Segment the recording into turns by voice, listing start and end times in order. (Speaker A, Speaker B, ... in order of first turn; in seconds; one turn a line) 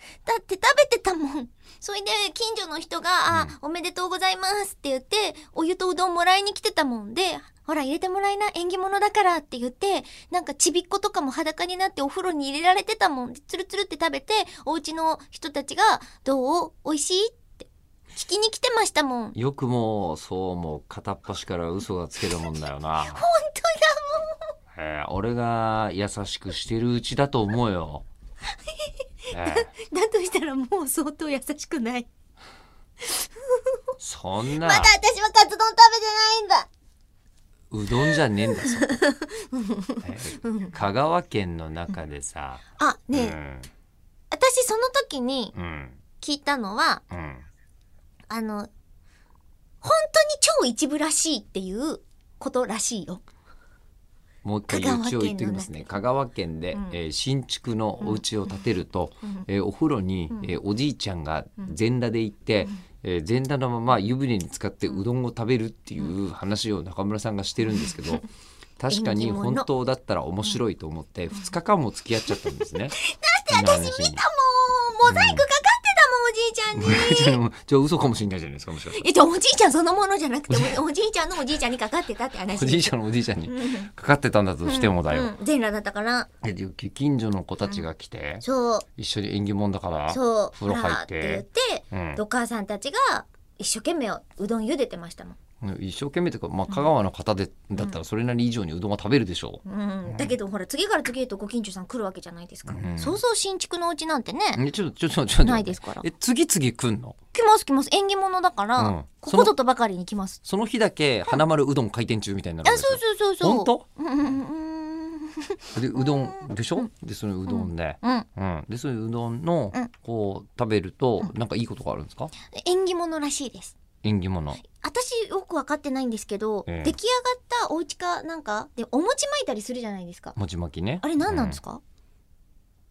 Speaker A: 0.2-19.4
Speaker B: 19.3-23.2
Speaker A: 23.0-24.4
Speaker B: 24.7-28.0
Speaker A: 28.8-32.1
Speaker B: 29.3-29.7
Speaker A: 33.0-33.8
Speaker B: 34.0-34.9
Speaker A: 34.6-36.7
Speaker B: 37.7-38.9
Speaker A: 37.9-40.8
Speaker B: 40.0-42.6
Speaker A: 42.8-43.4
Speaker B: 43.1-43.7
Speaker A: 44.3-45.5
Speaker B: 45.5-46.0
Speaker A: 46.2-47.0
Speaker B: 47.1-47.4
Speaker A: 48.3-48.7
Speaker A: 49.8-53.2
Speaker B: 54.4-68.2
Speaker A: 54.7-55.9
Speaker A: 56.7-57.0
Speaker A: 67.8-68.2
Speaker B: 68.8-72.9
Speaker A: 68.9-69.7
Speaker A: 72.3-77.4
Speaker B: 73.5-74.2
Speaker B: 75.1-75.4
Speaker B: 76.7-79.0
Speaker A: 78.9-83.9
Speaker B: 80.5-80.8
Speaker B: 82.5-85.3
Speaker A: 84.6-86.3
Speaker B: 86.4-88.4
Speaker A: 88.4-88.8
Speaker B: 89.0-92.2
Speaker A: 90.1-95.4
Speaker B: 95.6-100.3
Speaker A: 99.7-104.6
Speaker B: 102.7-103.2
Speaker B: 104.5-107.2
Speaker A: 105.4-106.0
Speaker A: 107.3-110.4
Speaker B: 108.8-109.5
Speaker B: 110.4-113.8
Speaker A: 112.6-116.9
Speaker B: 115.7-122.3
Speaker A: 117.5-118.3
Speaker A: 122.5-123.8
Speaker B: 124.0-124.6
Speaker A: 124.7-130.3
Speaker B: 126.7-126.9
Speaker B: 130.3-131.6
Speaker A: 131.0-131.8